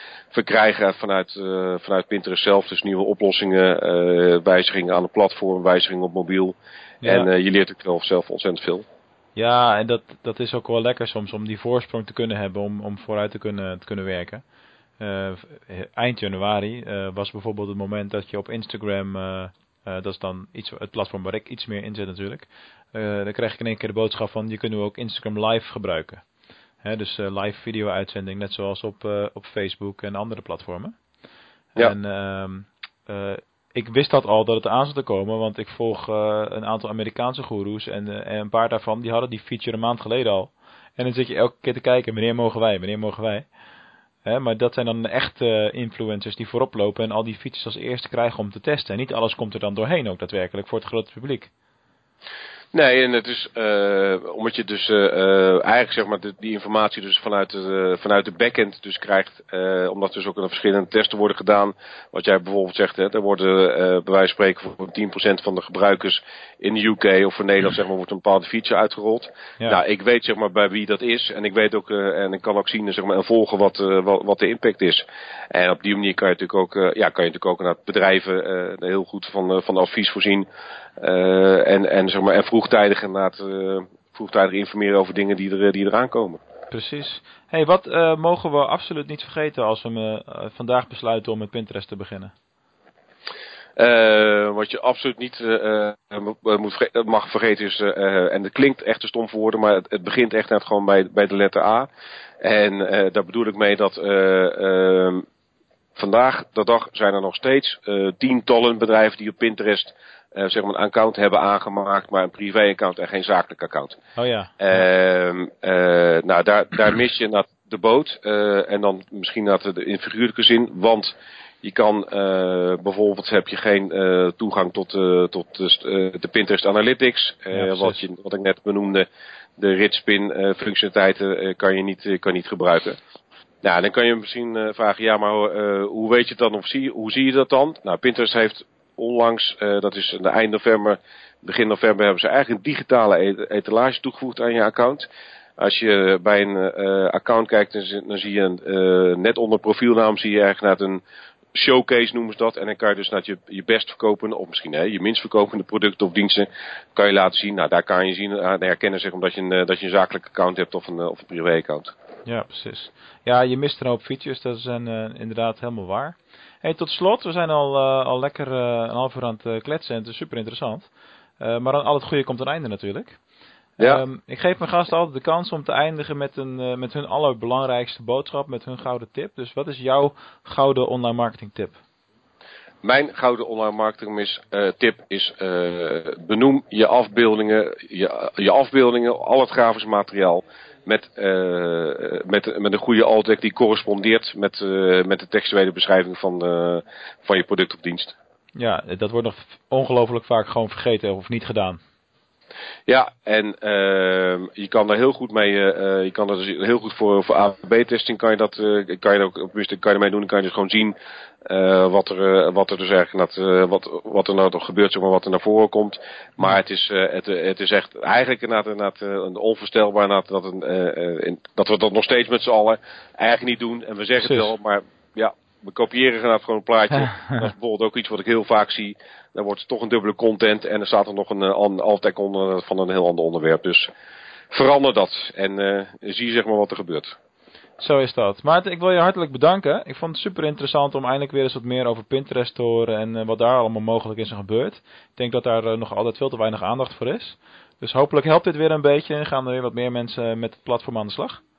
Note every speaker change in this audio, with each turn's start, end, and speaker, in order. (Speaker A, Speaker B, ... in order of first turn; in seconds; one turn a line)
Speaker A: 0.3-8.9
Speaker B: 7.0-7.3
Speaker B: 9.4-14.4
Speaker B: 15.0-26.2
Speaker B: 26.8-30.9
Speaker B: 31.8-43.5
Speaker B: 44.2-51.5
Speaker A: 52.7-80.5
Speaker A: 81.0-86.4
Speaker B: 86.7-92.3
Speaker A: 93.8-101.9
Speaker A: 102.4-105.2
Speaker A: 106.0-114.0
Speaker B: 114.2-114.8
Speaker A: 114.6-129.1
Speaker B: 127.5-128.0
Speaker A: 129.6-133.0
Speaker A: 133.6-151.0
Speaker A: 151.5-161.9
Speaker B: 162.3-170.9
Speaker B: 171.4-173.2
Speaker B: 173.8-181.8
Speaker A: 182.8-198.2
Speaker B: 198.6-201.8
Speaker A: 202.9-233.9
Speaker B: 224.2-224.5
Speaker A: 234.5-237.2
Speaker B: 237.8-251.4